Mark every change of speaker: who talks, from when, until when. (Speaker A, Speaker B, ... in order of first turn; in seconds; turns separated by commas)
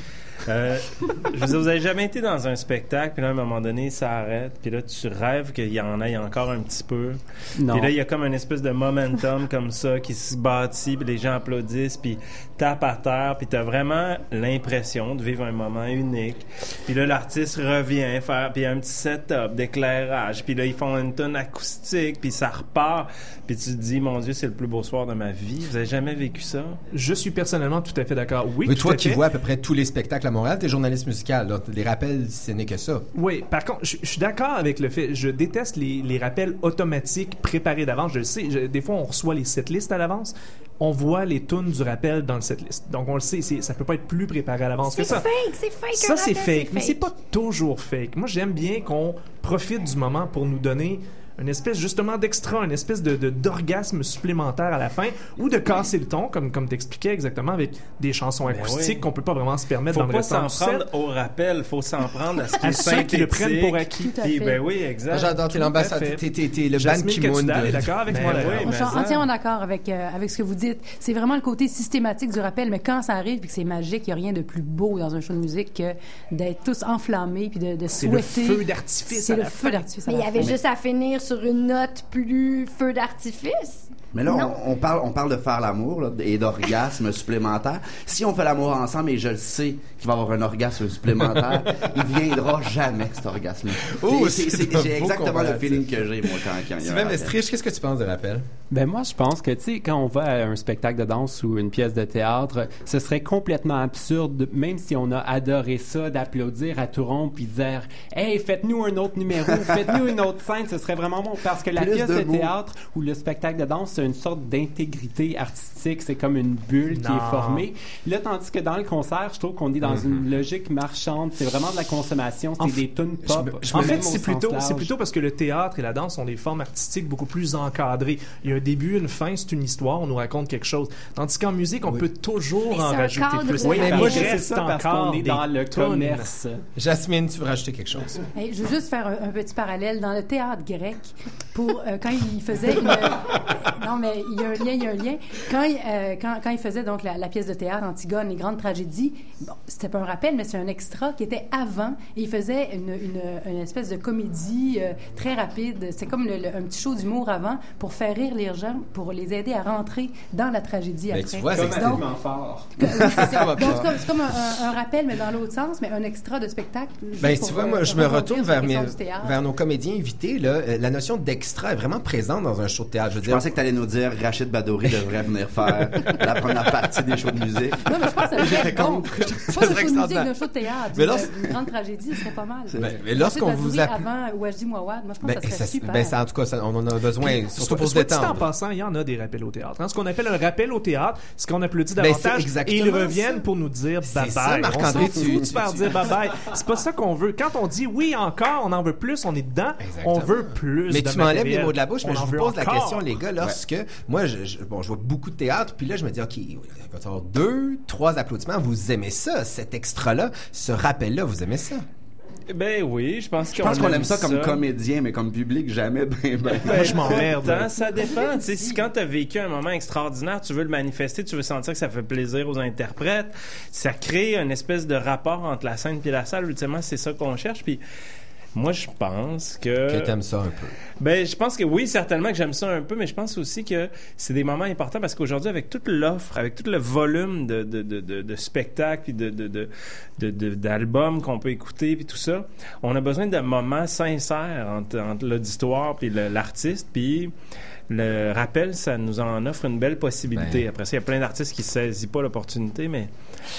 Speaker A: 0.5-26.8, Speaker B: 7.6-7.9, Speaker C: 26.9-29.2, Speaker D: 28.6-33.0, Speaker C: 33.1-45.2, Speaker E: 44.8-47.1, Speaker C: 45.9-60.9, Speaker A: 58.5-59.0, Speaker A: 59.9-65.5, Speaker C: 62.6-64.2, Speaker E: 64.2-64.5, Speaker D: 65.1-68.4, Speaker C: 65.5-66.2, Speaker C: 66.7-69.2, Speaker A: 68.1-69.0, Speaker F: 68.5-80.5, Speaker C: 77.9-79.8, Speaker E: 80.0-84.6, Speaker G: 84.1-97.3, Speaker D: 94.0-95.9, Speaker D: 96.8-98.4, Speaker B: 98.7-124.9, Speaker G: 111.8-112.5, Speaker C: 116.9-117.6, Speaker D: 119.8-120.2, Speaker D: 123.2-124.1, Speaker C: 123.7-136.3, Speaker E: 132.6-134.2, Speaker B: 133.7-136.6, Speaker D: 133.8-134.3, Speaker D: 136.8-138.2, Speaker F: 138.3-162.1, Speaker D: 161.1-162.1, Speaker B: 161.5-162.7, Speaker F: 162.8-169.4, Speaker D: 162.8-164.0, Speaker D: 167.2-173.4, Speaker G: 173.2-178.6, Speaker F: 177.8-186.1, Speaker D: 178.4-180.3, Speaker D: 180.9-181.5, Speaker D: 182.7-184.1, Speaker D: 185.2-188.4, Speaker C: 187.2-203.1, Speaker D: 192.0-193.4, Speaker D: 194.0-196.1, Speaker D: 199.8-211.8, Speaker A: 212.5-214.6, Speaker G: 213.5-217.3, Speaker A: 216.6-227.8, Speaker C: 216.6-217.7, Speaker F: 217.7-218.7, Speaker A: 228.5-230.1, Speaker D: 229.9-230.7, Speaker A: 231.0-247.3, Speaker A: 247.9-253.1, Speaker D: 250.3-250.6